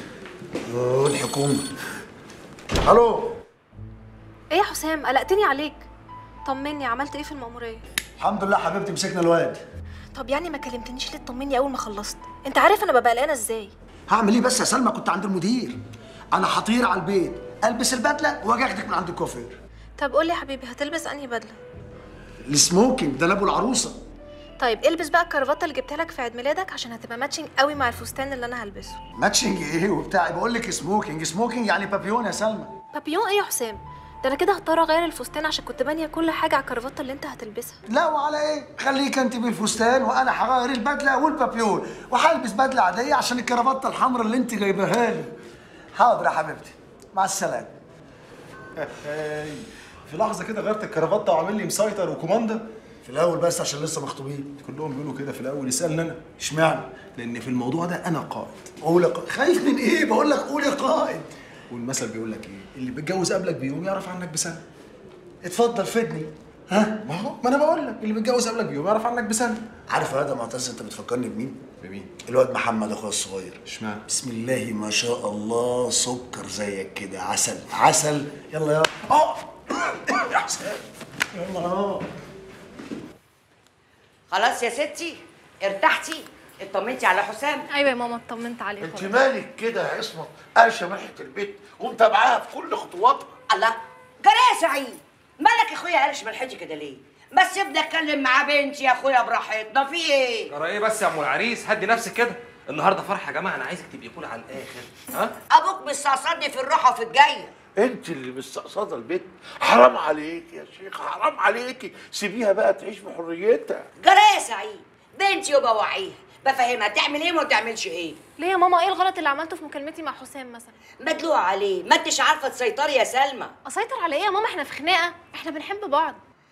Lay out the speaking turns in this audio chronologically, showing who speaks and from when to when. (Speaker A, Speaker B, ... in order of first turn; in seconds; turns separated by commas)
Speaker A: 0.7-1.7, Speaker A: 2.8-3.4, Speaker B: 4.5-5.9, Speaker B: 6.5-7.8, Speaker A: 8.2-9.6, Speaker B: 10.1-13.7, Speaker A: 14.1-15.8, Speaker A: 16.3-19.6, Speaker B: 20.0-21.6, Speaker A: 22.4-24.0, Speaker B: 24.6-29.0, Speaker A: 29.2-32.7, Speaker B: 32.9-37.8, Speaker A: 37.9-45.3, Speaker A: 46.0-47.7, Speaker C: 48.8-52.7, Speaker A: 53.0-54.5, Speaker C: 54.6-56.2, Speaker A: 56.4-56.9, Speaker C: 57.0-58.7, Speaker A: 58.8-61.3, Speaker C: 61.7-64.6, Speaker A: 65.4-66.9, Speaker C: 67.0-69.6, Speaker A: 69.9-71.6, Speaker C: 71.8-72.1, Speaker A: 72.2-73.6, Speaker C: 73.6-74.0, Speaker A: 74.1-79.5, Speaker A: 80.3-80.8, Speaker A: 81.4-82.0, Speaker D: 84.3-87.7, Speaker B: 87.7-89.3, Speaker E: 89.0-93.3, Speaker D: 93.5-100.5, Speaker F: 100.6-102.2, Speaker F: 102.8-104.6, Speaker D: 105.5-107.5, Speaker E: 107.8-113.8, Speaker D: 114.0-118.2, Speaker B: 118.4-120.7, Speaker D: 121.0-123.5, Speaker B: 123.7-126.2